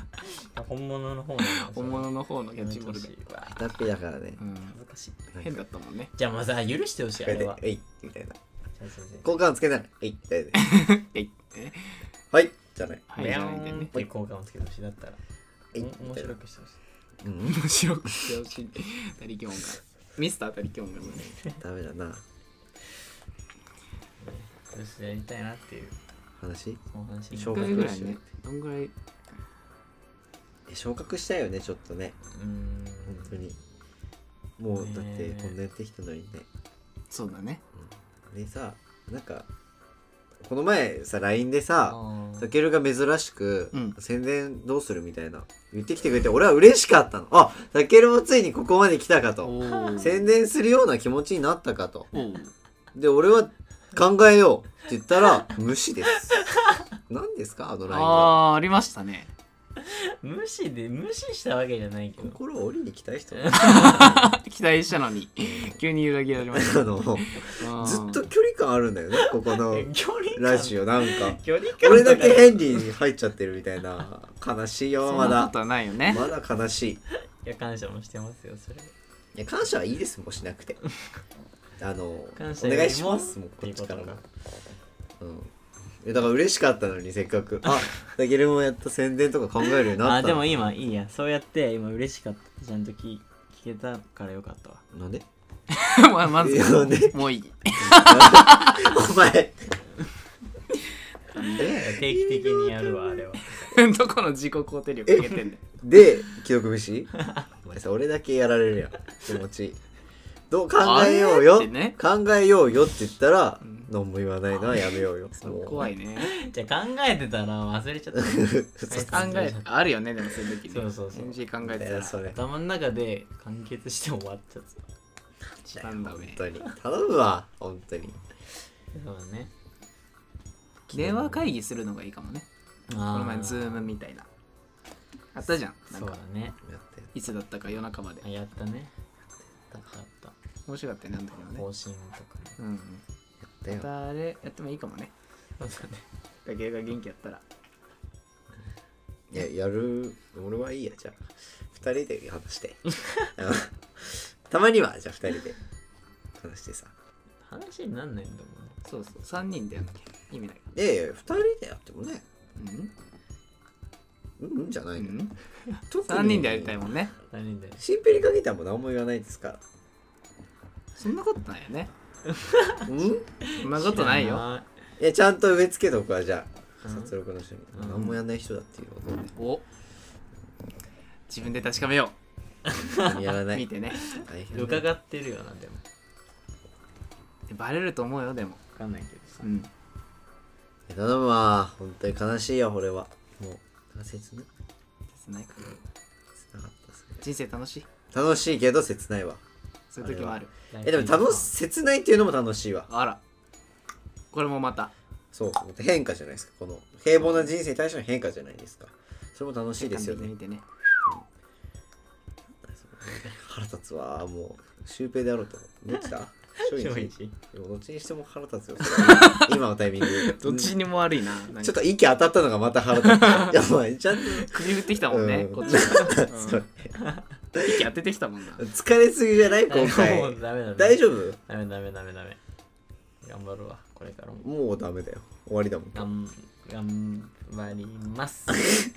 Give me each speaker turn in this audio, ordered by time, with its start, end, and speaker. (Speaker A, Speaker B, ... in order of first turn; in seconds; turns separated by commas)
Speaker A: 0.2-3.7, Speaker B: 1.6-3.1, Speaker C: 3.5-4.4, Speaker B: 4.4-4.8, Speaker A: 4.7-5.3, Speaker B: 5.4-6.1, Speaker A: 6.2-7.6, Speaker C: 7.2-8.4, Speaker A: 8.8-9.4, Speaker C: 9.2-10.6, Speaker B: 10.5-11.9, Speaker C: 12.3-13.1, Speaker B: 13.1-13.9, Speaker A: 13.2-15.2, Speaker A: 15.7-16.8, Speaker C: 15.7-16.4, Speaker C: 17.2-17.7, Speaker B: 17.4-21.3, Speaker C: 21.4-22.2, Speaker A: 24.2-26.0, Speaker C: 26.4-28.2, Speaker A: 26.9-27.9, Speaker B: 27.5-28.9, Speaker C: 30.7-32.1, Speaker A: 32.3-33.5, Speaker C: 33.0-33.5, Speaker C: 34.6-36.5, Speaker A: 34.8-35.6, Speaker B: 37.1-37.6, Speaker C: 37.8-39.5, Speaker C: 40.4-52.1, Speaker A: 41.8-42.5, Speaker B: 43.7-44.0, Speaker B: 49.4-50.2, Speaker B: 52.1-52.5, Speaker C: 52.9-56.4, Speaker A: 56.5-56.8, Speaker C: 57.1-58.4, Speaker B: 57.9-59.3, Speaker A: 59.8-62.4, Speaker C: 62.2-64.3, Speaker A: 63.4-64.2, Speaker B: 63.5-68.2, Speaker C: 65.4-65.8, Speaker C: 66.5-75.5, Speaker A: 69.7-72.8, Speaker B: 75.0-76.2, Speaker C: 76.0-77.0, Speaker A: 77.4-78.9, Speaker C: 79.3-80.8, Speaker C: 81.8-84.2, Speaker A: 82.3-84.2, Speaker C: 85.2-90.6, Speaker A: 90.0-94.8, Speaker C: 94.9-95.2, Speaker B: 95.7-98.9, Speaker C: 96.4-97.2, Speaker C: 97.8-99.8, Speaker B: 101.3-101.7, Speaker C: 101.5-103.3, Speaker A: 101.6-103.8, Speaker B: 103.6-105.6, Speaker C: 105.1-109.8, Speaker C: 110.5-115.9, Speaker B: 110.8-112.0, Speaker B: 113.6-113.9, Speaker B: 115.4-116.3, Speaker A: 116.2-119.7, Speaker C: 118.1-119.3, Speaker B: 119.1-122.2, Speaker A: 120.7-121.4, Speaker C: 121.6-122.4, Speaker A: 122.3-124.8, Speaker A: 125.6-126.0, Speaker C: 125.8-128.2, Speaker B: 125.8-126.4, Speaker A: 128.9-129.5, Speaker B: 130.9-132.4, Speaker C: 130.9-131.4, Speaker A: 132.9-133.9, Speaker B: 133.1-134.3, Speaker B: 135.3-136.1, Speaker A: 135.9-136.6, Speaker C: 136.6-137.1, Speaker B: 137.1-138.2, Speaker A: 138.2-138.9, Speaker A: 139.7-140.3, Speaker B: 140.7-141.7, Speaker A: 141.5-142.6, Speaker B: 142.6-143.0, Speaker C: 143.4-143.9, Speaker B: 143.7-145.1, Speaker A: 145.6-146.0, Speaker B: 146.4-147.4, Speaker C: 149.3-155.6, Speaker C: 156.4-156.9, Speaker A: 157.4-158.8, Speaker B: 158.8-160.7, Speaker C: 160.7-162.2, Speaker B: 162.6-162.9, Speaker C: 164.4-165.2, Speaker B: 165.0-165.3, Speaker C: 165.9-166.8, Speaker B: 166.0-167.1, Speaker A: 167.3-167.8, Speaker C: 167.8-169.6, Speaker B: 170.9-171.9, Speaker A: 172.3-174.7, Speaker C: 172.8-173.2, Speaker B: 173.6-174.4, Speaker C: 175.0-179.3, Speaker A: 176.8-177.1, Speaker A: 177.7-178.2, Speaker B: 179.3-179.6, Speaker B: 181.3-182.2, Speaker A: 182.7-183.2, Speaker C: 182.9-184.9, Speaker B: 183.5-184.0, Speaker A: 184.0-185.8, Speaker B: 187.5-188.6, Speaker A: 188.7-189.5, Speaker B: 189.4-189.7, Speaker C: 190.9-194.5, Speaker B: 195.1-195.8, Speaker C: 196.3-197.2, Speaker B: 197.2-197.8, Speaker C: 198.1-199.4, Speaker B: 199.9-200.5, Speaker C: 200.0-202.9, Speaker A: 200.7-201.5, Speaker B: 202.9-203.2, Speaker B: 204.3-204.9, Speaker C: 205.3-210.3, Speaker B: 209.8-210.6, Speaker C: 212.6-220.7, Speaker A: 216.6-217.4, Speaker B: 218.9-221.8, Speaker C: 221.6-227.0, Speaker B: 223.0-223.6, Speaker B: 224.4-226.6, Speaker A: 225.7-226.2, Speaker C: 227.5-227.8, Speaker B: 227.6-228.6, Speaker C: 228.6-231.4, Speaker A: 229.7-232.4, Speaker A: 233.2-234.5, Speaker C: 234.4-236.1, Speaker A: 235.9-238.7